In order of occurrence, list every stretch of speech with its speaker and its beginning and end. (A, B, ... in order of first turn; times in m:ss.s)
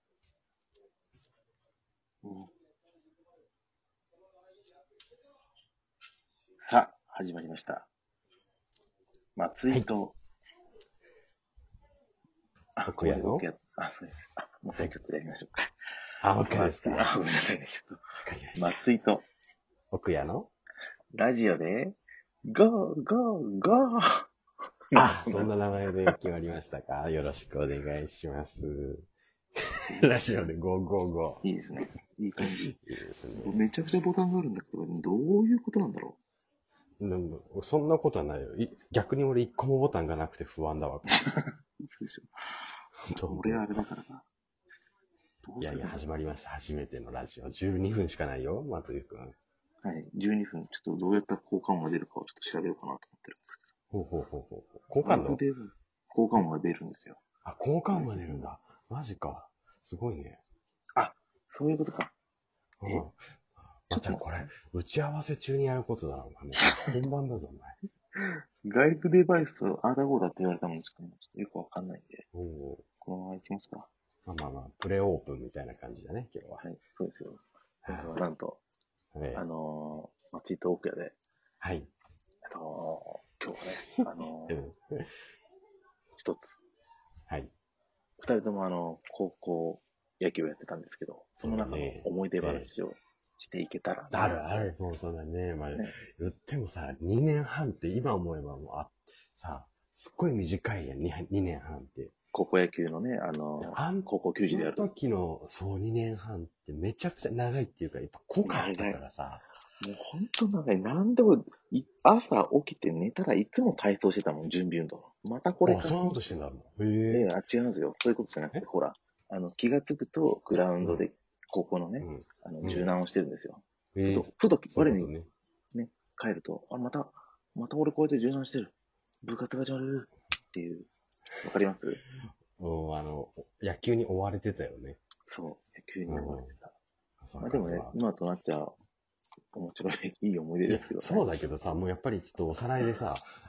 0:02.2-0:02.5 A
0:06.6-0:07.9 A
0:09.4-0:10.2 A
0:12.8-0:15.7 A
0:12.8-0:13.4 B
0:16.2-0:17.1 B
0:16.4-0:18.0 A
0:18.2-0:18.7 B
0:18.6-0:19.2 A
0:19.9-0:20.5 B
0:21.1-0:24.3 A
0:24.9-0:25.5 A
0:24.9-0:31.4 B
0:29.8-0:30.4 A
0:31.4-0:32.7 A
0:32.6-0:33.6 B
0:33.4-0:36.2 A
0:37.0-0:41.2 B
0:41.3-0:42.3 A
0:43.0-0:43.7 B
0:43.3-0:44.2 A
0:45.4-0:46.0 A
0:45.6-0:49.4 B
0:49.8-0:53.7 A
0:53.9-0:55.4 B
0:55.0-0:57.2 A
0:57.4-1:00.4 B
1:01.0-1:02.1 A
1:02.8-1:07.8 B
1:03.9-1:04.5 A
1:08.6-1:12.2 A
1:12.3-1:12.8 B
1:13.0-1:13.9 A
1:14.2-1:16.6 B
1:16.6-1:18.6 A
1:17.8-1:18.1 B
1:19.1-1:19.4 B
1:19.3-1:21.2 A
1:21.6-1:21.9 B
1:22.4-1:24.6 A
1:24.0-1:25.1 B
1:26.2-1:26.6 A
1:28.2-1:34.7 A
1:31.4-1:32.7 B
1:34.1-1:42.1 B
1:42.3-1:44.9 A
1:43.6-1:49.4 B
1:48.4-1:49.0 A
1:49.8-1:56.0 A
1:55.6-1:57.3 B
1:57.1-2:05.1 A
2:02.0-2:02.9 B
2:03.9-2:05.3 B
2:05.7-2:08.7 A
2:09.2-2:10.9 A
2:11.4-2:12.0 A
2:12.6-2:15.0 B
2:15.2-2:16.7 A
2:16.1-2:16.5 B
2:17.2-2:18.0 B
2:17.4-2:18.7 A
2:19.5-2:21.2 A
2:20.7-2:23.3 B